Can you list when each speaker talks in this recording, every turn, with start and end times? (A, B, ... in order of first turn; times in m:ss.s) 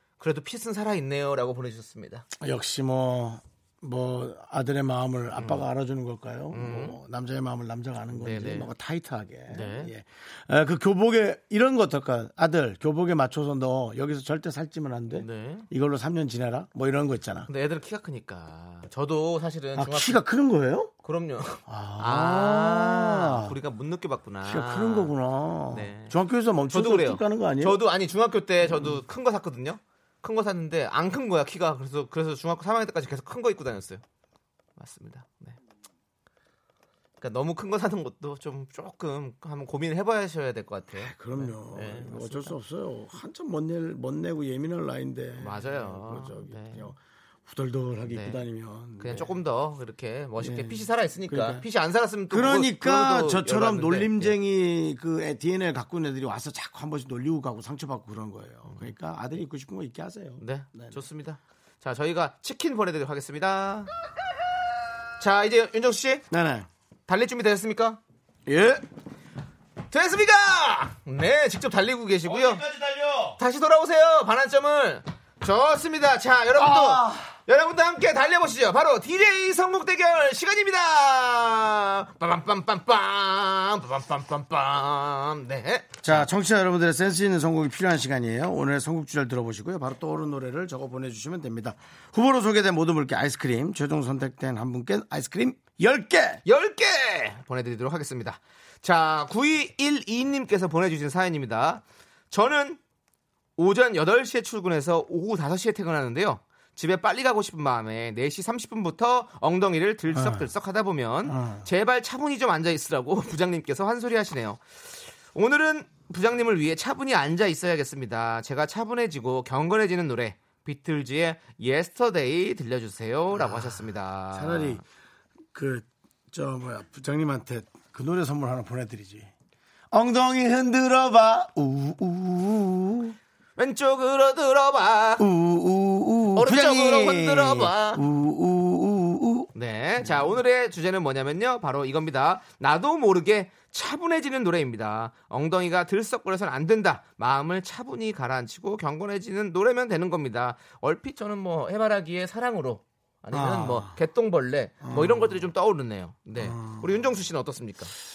0:00.2-0:02.2 A
0:02.4-0:17.5 B
0:05.4-0:05.6 A
0:06.5-0:07.0 A
0:08.1-0:08.7 A
0:09.5-0:09.9 A
0:15.1-0:15.7 A
0:17.5-0:20.2 A
0:19.8-0:20.9 B
0:21.0-0:25.1 A
0:21.7-0:23.6 B
0:24.4-0:27.8 B
0:25.7-0:34.0 A
0:28.6-0:29.0 B
0:34.8-0:35.6 A
0:37.2-0:42.5 A
0:40.9-0:49.4 B
0:45.4-0:46.9 A
0:48.1-0:48.4 A
0:49.0-0:54.4 A
0:50.4-0:51.6 B
0:52.3-1:01.0 B
1:00.4-1:03.9 A
1:05.2-1:06.2 A
1:06.3-1:06.7 B
1:07.1-1:08.0 A
1:08.4-1:08.8 B
1:09.9-1:12.6 A
1:12.2-1:13.4 B
1:13.4-1:26.3 A
1:16.5-1:17.4 B
1:26.0-1:36.4 B
1:36.4-1:42.8 A
1:43.6-2:04.8 A
1:50.1-1:50.5 B
1:51.2-1:51.7 B
2:03.3-2:04.8 B
2:05.5-2:09.3 B
2:09.9-2:13.2 B
2:13.6-2:15.2 A
2:15.2-2:20.3 B
2:16.4-2:18.0 A
2:19.5-2:37.9 A
2:33.3-2:34.0 B
2:34.8-2:35.5 B
2:36.4-2:37.0 B